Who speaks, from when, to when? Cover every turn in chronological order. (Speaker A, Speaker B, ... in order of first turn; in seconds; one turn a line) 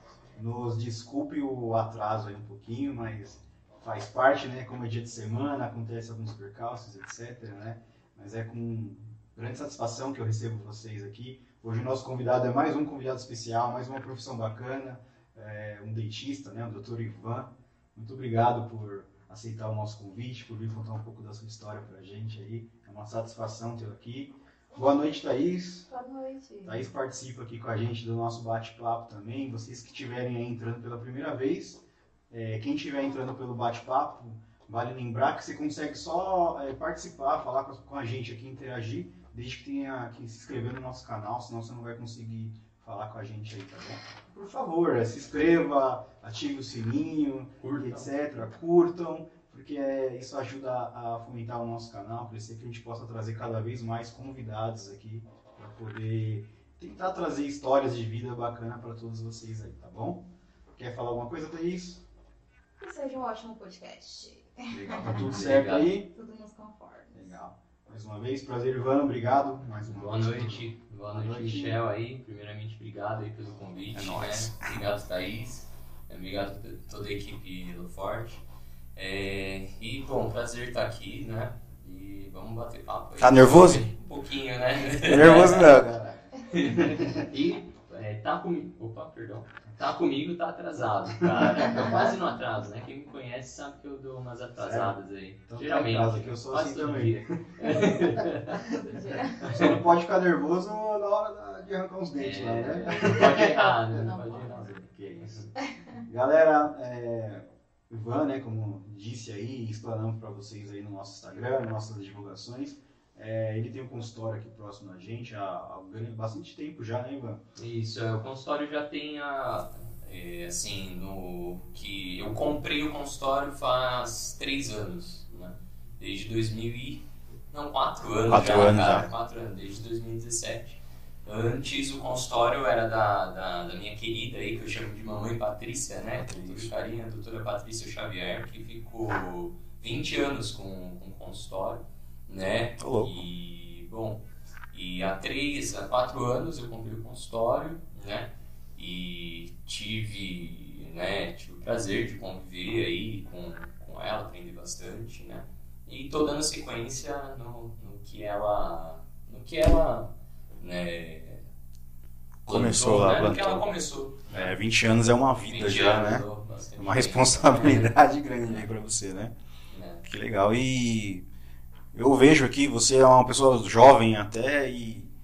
Speaker A: 0.3-25.9
Speaker B: 25.9-26.8
Speaker A: 26.6-60.2
Speaker C: 47.6-48.1
Speaker A: 60.8-62.0
Speaker B: 62.8-67.3
Speaker A: 64.7-66.1
Speaker C: 65.1-65.9
Speaker A: 67.1-71.8
Speaker C: 69.8-78.4
Speaker A: 73.9-74.8
Speaker C: 78.9-85.8
Speaker A: 83.2-83.9
Speaker A: 84.9-87.3
Speaker C: 86.5-98.6
Speaker A: 91.3-92.2
Speaker A: 94.6-95.0
Speaker A: 95.5-105.5
Speaker B: 98.7-99.4
Speaker C: 99.4-99.8
Speaker C: 102.2-105.5
Speaker B: 103.0-104.5
Speaker B: 105.6-106.0
Speaker A: 106.0-117.4
Speaker C: 117.5-161.4
Speaker A: 128.3-129.1
Speaker A: 136.1-136.7
Speaker A: 142.8-143.2
Speaker A: 162.4-163.6
Speaker C: 162.5-164.5
Speaker A: 164.3-166.2
Speaker C: 165.4-167.9
Speaker A: 166.8-169.3
Speaker C: 169.7-170.0
Speaker A: 170.0-171.2
Speaker A: 171.9-175.1